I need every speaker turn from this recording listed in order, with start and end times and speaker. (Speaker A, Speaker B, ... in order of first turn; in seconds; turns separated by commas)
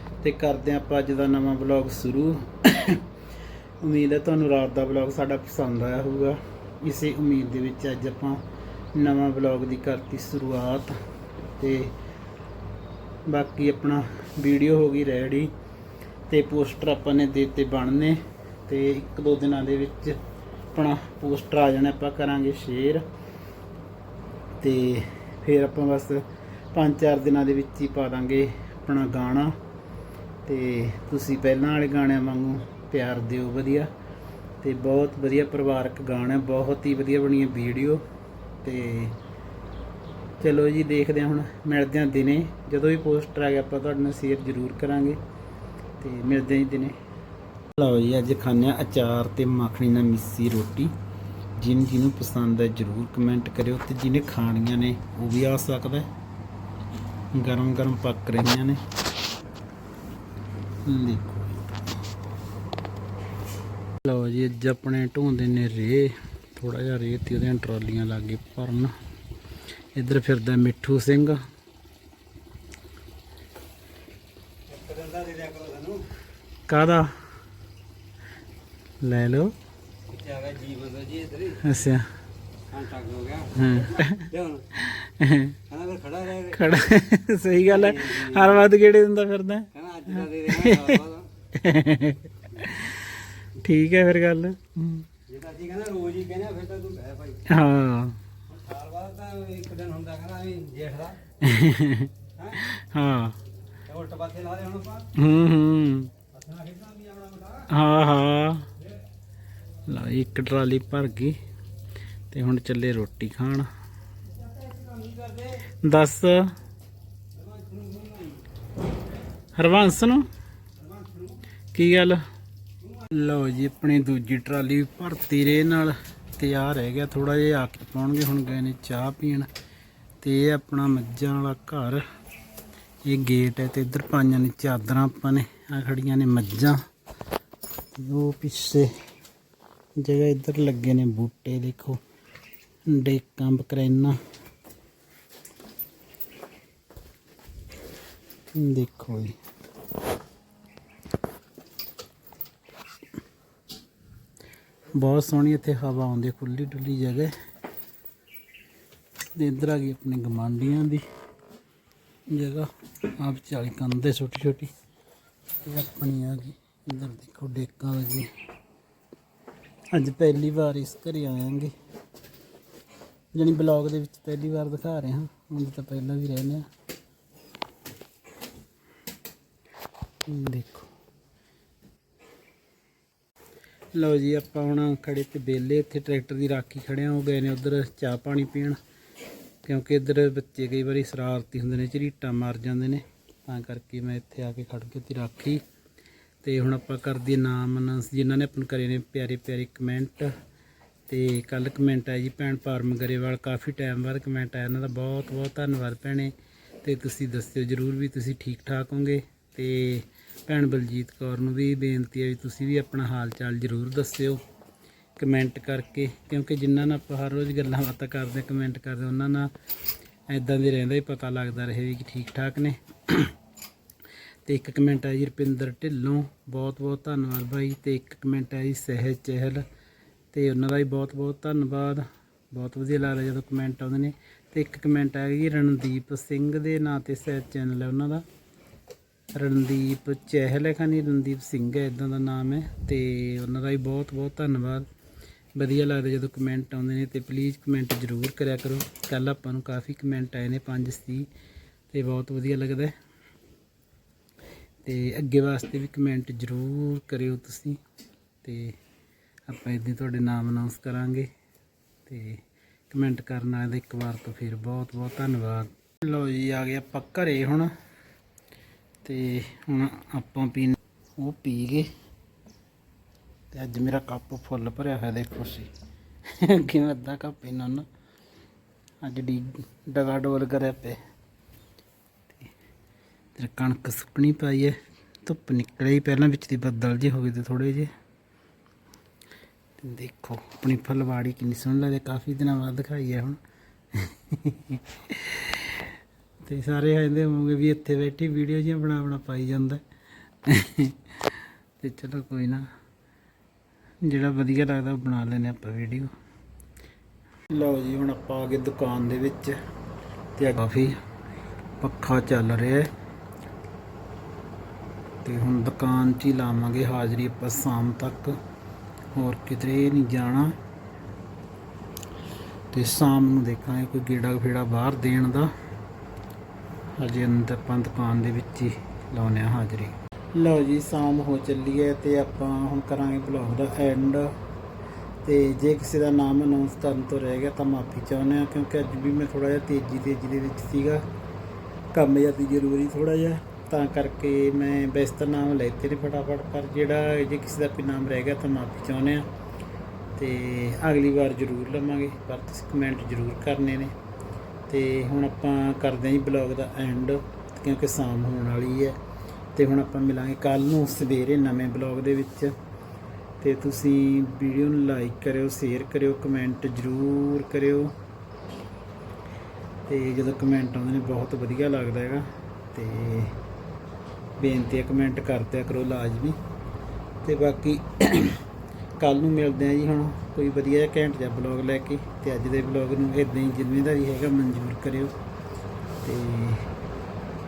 Speaker A: 0.2-3.0, Speaker A: 3.8-8.4, Speaker A: 8.9-11.0, Speaker A: 11.6-11.9, Speaker A: 13.3-15.5, Speaker A: 16.3-20.2, Speaker A: 20.7-23.1, Speaker A: 24.6-29.5, Speaker A: 30.4-33.9, Speaker A: 34.6-38.0, Speaker A: 38.6-39.1, Speaker A: 40.4-45.2, Speaker A: 46.0-47.0, Speaker A: 47.7-50.9, Speaker A: 51.6-56.1, Speaker A: 57.3-58.8, Speaker A: 60.8-61.6, Speaker A: 64.0-68.9, Speaker A: 70.0-71.4, Speaker B: 74.7-76.1, Speaker A: 76.7-77.1, Speaker A: 79.0-79.5, Speaker B: 80.1-81.6, Speaker A: 81.6-82.1, Speaker B: 82.7-84.7, Speaker A: 83.5-85.6, Speaker B: 85.7-86.7, Speaker A: 86.4-89.7, Speaker B: 87.7-88.6, Speaker B: 89.7-91.3, Speaker A: 90.2-95.1, Speaker B: 95.3-97.5, Speaker A: 97.5-98.2, Speaker B: 98.5-101.2, Speaker A: 101.4-103.4, Speaker B: 102.4-102.6, Speaker B: 103.8-105.1, Speaker A: 105.1-106.1, Speaker B: 106.3-107.7, Speaker A: 107.7-108.7, Speaker A: 109.8-111.4, Speaker A: 112.3-113.7, Speaker B: 114.6-115.6, Speaker A: 115.8-116.5, Speaker B: 117.3-118.4, Speaker A: 119.5-120.3, Speaker B: 120.9-121.3, Speaker A: 121.7-122.2, Speaker A: 123.0-129.5, Speaker A: 130.2-132.0, Speaker A: 133.0-136.8, Speaker A: 137.9-138.9, Speaker A: 140.0-142.0, Speaker A: 142.9-144.2, Speaker A: 148.5-149.4, Speaker A: 154.9-157.3, Speaker A: 159.3-161.0, Speaker A: 162.3-164.7, Speaker A: 165.6-168.3, Speaker A: 169.9-171.7, Speaker A: 173.3-176.6, Speaker A: 180.3-180.9, Speaker A: 183.9-188.8, Speaker A: 189.6-195.6, Speaker A: 196.4-200.3, Speaker A: 201.1-214.4, Speaker A: 215.2-219.5, Speaker A: 220.3-223.3, Speaker A: 224.4-229.6, Speaker A: 230.3-238.2, Speaker A: 239.3-244.9, Speaker A: 245.6-251.3, Speaker A: 251.9-252.9, Speaker A: 254.8-257.8, Speaker A: 258.4-258.8, Speaker A: 259.5-261.3, Speaker A: 262.1-267.7, Speaker A: 269.0-271.9, Speaker A: 273.5-275.7, Speaker A: 276.3-277.9, Speaker A: 279.0-281.0, Speaker A: 283.3-287.9, Speaker A: 289.8-293.4, Speaker A: 293.9-295.9, Speaker A: 296.4-299.8, Speaker A: 300.4-302.6, Speaker A: 304.0-306.1, Speaker A: 307.5-309.6, Speaker A: 310.4-311.0, Speaker A: 311.8-312.9, Speaker A: 315.2-318.4, Speaker A: 319.1-320.5, Speaker A: 322.7-325.5, Speaker A: 327.0-334.3, Speaker A: 335.2-341.0, Speaker A: 341.9-349.2, Speaker A: 350.1-353.9, Speaker A: 354.7-359.0, Speaker A: 359.5-362.5, Speaker A: 363.4-367.9, Speaker A: 369.9-373.4, Speaker A: 374.4-376.4, Speaker A: 377.2-378.4, Speaker A: 379.0-385.1, Speaker A: 386.0-386.7